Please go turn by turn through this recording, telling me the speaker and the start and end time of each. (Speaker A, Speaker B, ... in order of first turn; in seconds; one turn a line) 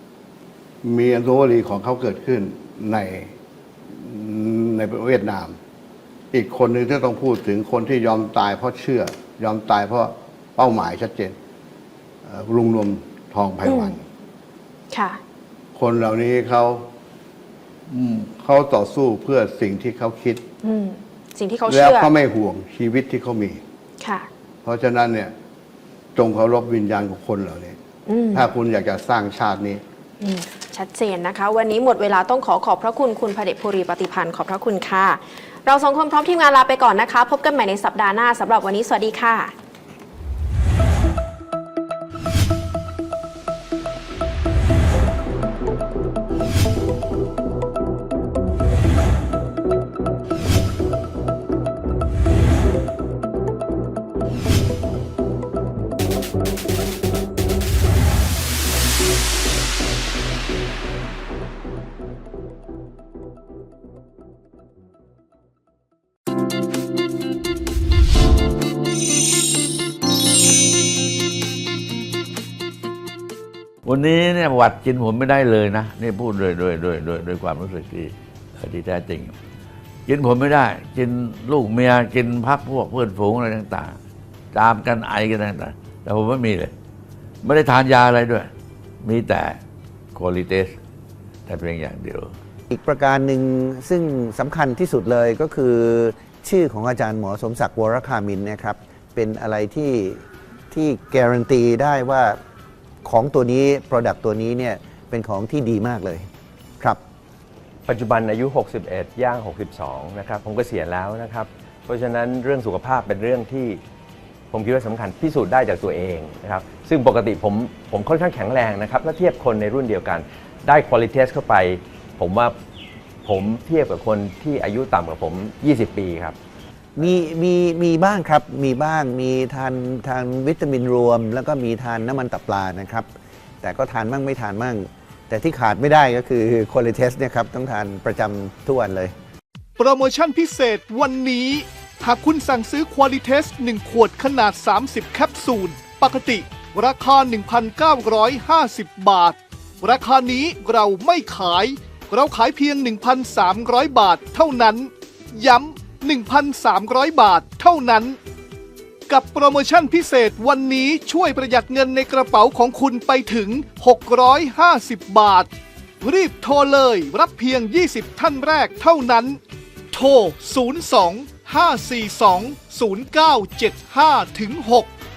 Speaker A: 0.8-3.3
Speaker A: 3.9-5.6
Speaker A: 6.3-11.3
Speaker A: 12.2-14.0
Speaker B: 13.6-13.9
Speaker B: 14.9-15.2
Speaker A: 15.7-16.9
Speaker A: 17.9-20.4
Speaker B: 20.6-22.1
Speaker A: 21.7-23.6
Speaker B: 24.0-24.3
Speaker A: 24.6-25.3
Speaker A: 26.1-27.8
Speaker B: 28.1-28.5
Speaker A: 28.3-29.8
Speaker B: 30.2-39.5
Speaker C: 73.8-79.3
Speaker C: 80.1-84.0
Speaker C: 84.5-86.7
Speaker C: 87.4-88.5
Speaker C: 89.0-89.6
Speaker C: 90.1-90.7
Speaker C: 91.5-92.3
Speaker D: 92.7-102.4
Speaker D: 103.0-106.3
Speaker E: 107.9-113.8
Speaker E: 114.5-122.5
Speaker E: 123.2-126.3
Speaker D: 127.0-133.1
Speaker D: 133.6-139.1
Speaker F: 139.8-158.2
Speaker F: 159.1-169.4
Speaker F: 169.9-174.9